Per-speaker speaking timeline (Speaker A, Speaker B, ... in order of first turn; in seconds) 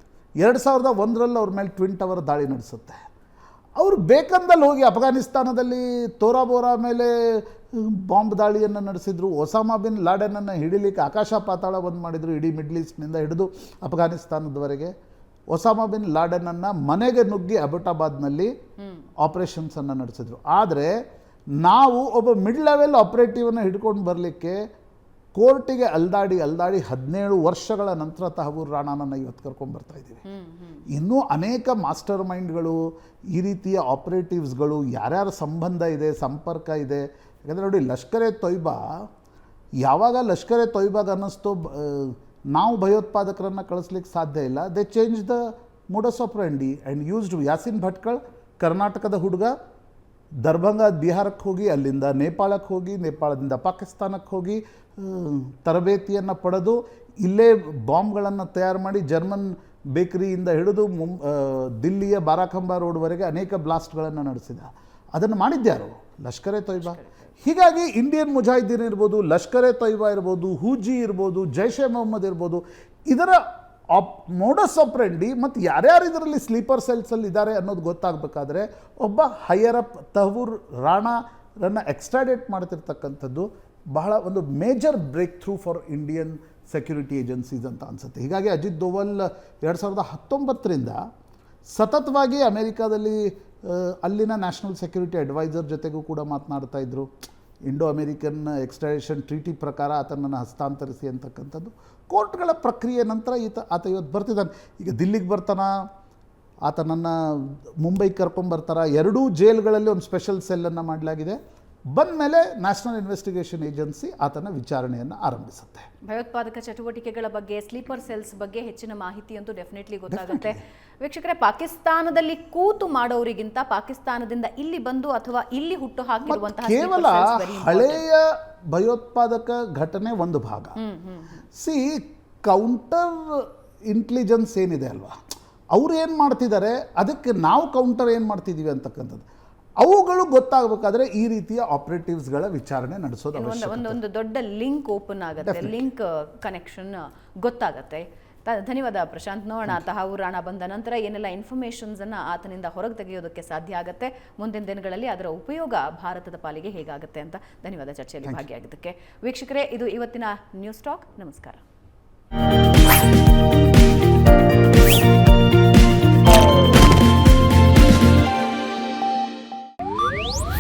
Speaker A: 0.4-3.0, 3.8-14.9, 15.5-18.5, 19.2-20.9, 21.6-24.6, 25.4-30.2, 30.9-32.8, 33.3-39.1, 39.8-49.5, 50.4-73.4, 73.9-91.0, 91.7-97.1, 97.7-105.7, 106.7-111.4, 111.9-115.9, 120.1-120.6, 126.2-130.8, 131.6-135.2, 135.7-139.2, 139.8-144.0, 145.4-145.8
Speaker B: 18.8-19.1, 30.2-30.9, 66.8-67.1, 116.0-128.1, 130.8-131.4, 143.3-161.6